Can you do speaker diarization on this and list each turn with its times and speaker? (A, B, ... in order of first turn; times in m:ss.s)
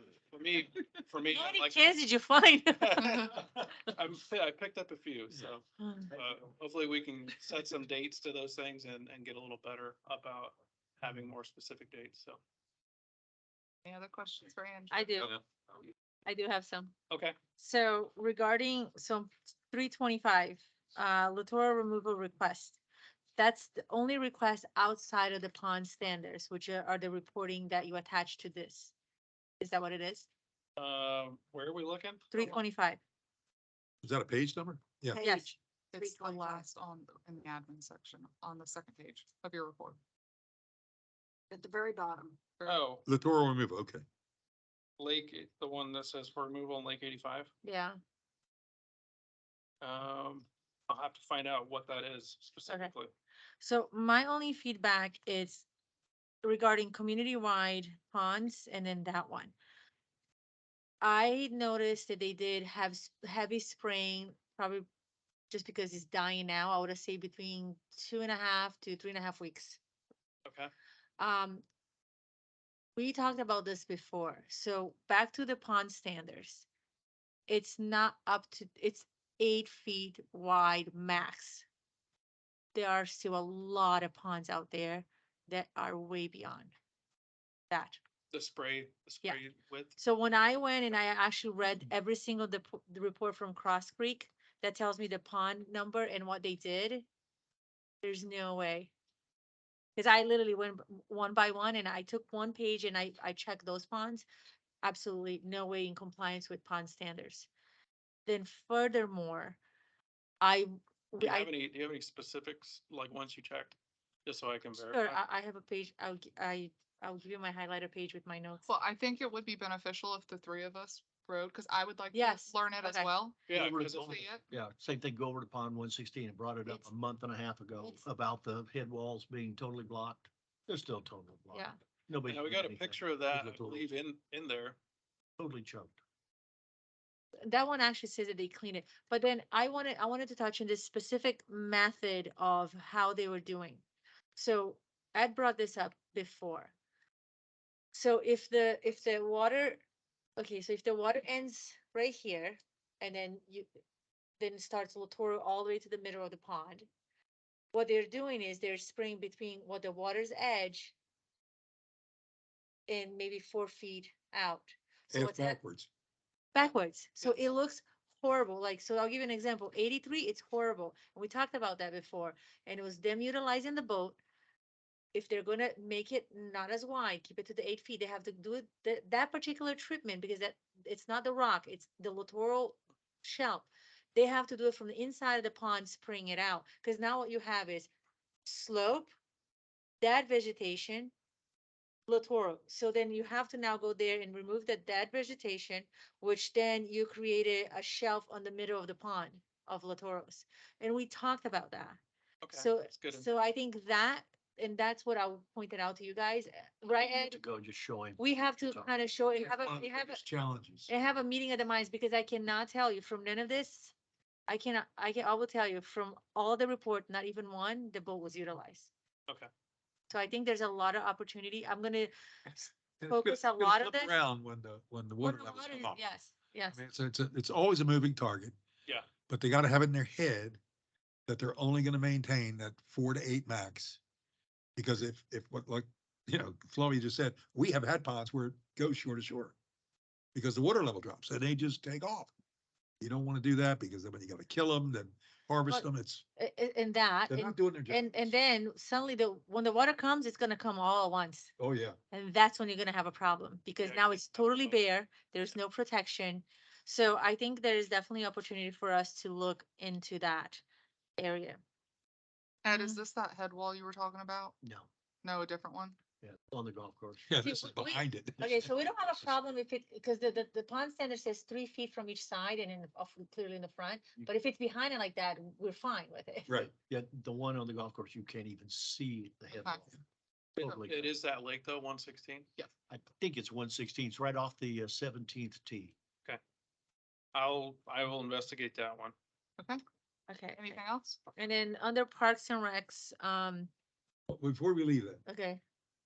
0:00.3-0:01.9 A
0:01.3-0:03.4 B
0:02.8-0:12.4 A
0:05.8-0:06.1 B
0:13.8-0:15.3 C
0:14.9-0:15.3 B
0:16.2-0:16.9 B
0:17.1-0:17.4 A
0:17.6-0:22.8 B
0:23.4-0:28.9 B
0:29.6-0:30.3 B
0:30.8-0:32.6 A
0:32.3-0:33.0 B
0:34.0-0:35.2 D
0:35.2-0:35.4 E
0:35.2-0:35.6 B
0:35.9-0:40.0 C
0:36.0-0:36.6 E
0:41.5-0:42.4 E
0:42.6-0:42.8 C
0:42.6-0:43.0 A
0:43.1-0:44.0 D
0:45.0-0:47.5 A
0:47.6-0:48.0 B
0:49.8-0:53.1 A
0:52.7-0:52.9 B
0:53.6-0:55.7 B
0:56.4-0:59.6 B
1:01.0-1:04.8 B
1:05.5-1:09.8 B
1:10.5-1:10.7 A
1:11.2-1:11.6 B
1:13.0-1:16.7 B
1:17.5-1:21.6 B
1:22.7-1:26.7 B
1:27.7-1:28.0 B
1:28.3-1:30.0 A
1:30.0-1:37.1 B
1:38.0-1:38.9 B
1:40.0-1:44.3 B
1:44.8-1:47.5 B
1:48.3-1:49.6 B
1:50.4-1:51.5 B
1:51.2-1:55.2 A
1:54.8-1:58.6 B
1:58.6-2:04.4 C
2:02.1-2:03.1 B
2:03.5-2:04.2 A
2:03.5-2:13.0 F
2:12.2-2:14.8 A
2:13.3-2:13.8 D
2:15.4-2:16.0 F
2:17.4-2:23.8 B
2:24.4-2:26.7 B
2:27.9-2:29.8 B
2:30.4-2:33.7 B
2:34.4-2:36.9 B
2:37.7-2:40.9 B
2:42.9-2:45.6 B
2:45.1-2:45.9 D
2:46.5-2:54.2 B
2:55.1-3:07.9 B
3:08.4-3:09.1 B
3:10.0-3:11.1 B
3:12.1-3:22.0 B
3:22.4-3:23.3 A
3:22.5-3:27.4 B
3:27.1-3:28.9 F
3:28.2-3:30.2 B
3:29.4-3:30.9 D
3:30.9-3:33.9 B
3:34.5-3:38.9 B
3:40.1-3:42.1 B
3:42.5-3:46.0 D
3:43.1-3:44.2 B
3:45.2-3:46.8 B
3:46.7-3:48.6 D
3:49.3-3:50.6 D
3:51.3-3:54.0 D
3:54.8-3:59.6 D
4:00.4-4:02.3 D
4:03.0-4:06.2 D
4:05.7-4:11.5 B
4:07.3-4:08.3 D
4:11.6-4:12.0 D
4:12.1-4:20.6 B
4:13.8-4:14.8 A
4:21.2-4:21.6 B
4:22.6-4:24.6 C
4:22.7-4:23.0 B
4:24.6-4:24.9 F
4:25.2-4:26.0 C
4:26.2-4:27.3 F
4:27.3-4:28.7 D
4:27.4-4:36.5 B
4:36.6-4:39.9 F
4:39.5-4:39.8 C
4:40.6-4:41.1 F
4:40.6-4:40.9 C
4:40.8-4:42.5 A
4:42.6-4:46.0 F
4:47.3-4:49.1 A
4:50.3-4:50.8 B
4:50.6-4:51.2 C
4:51.4-4:53.7 B
4:54.3-4:55.2 D
4:55.3-4:55.6 B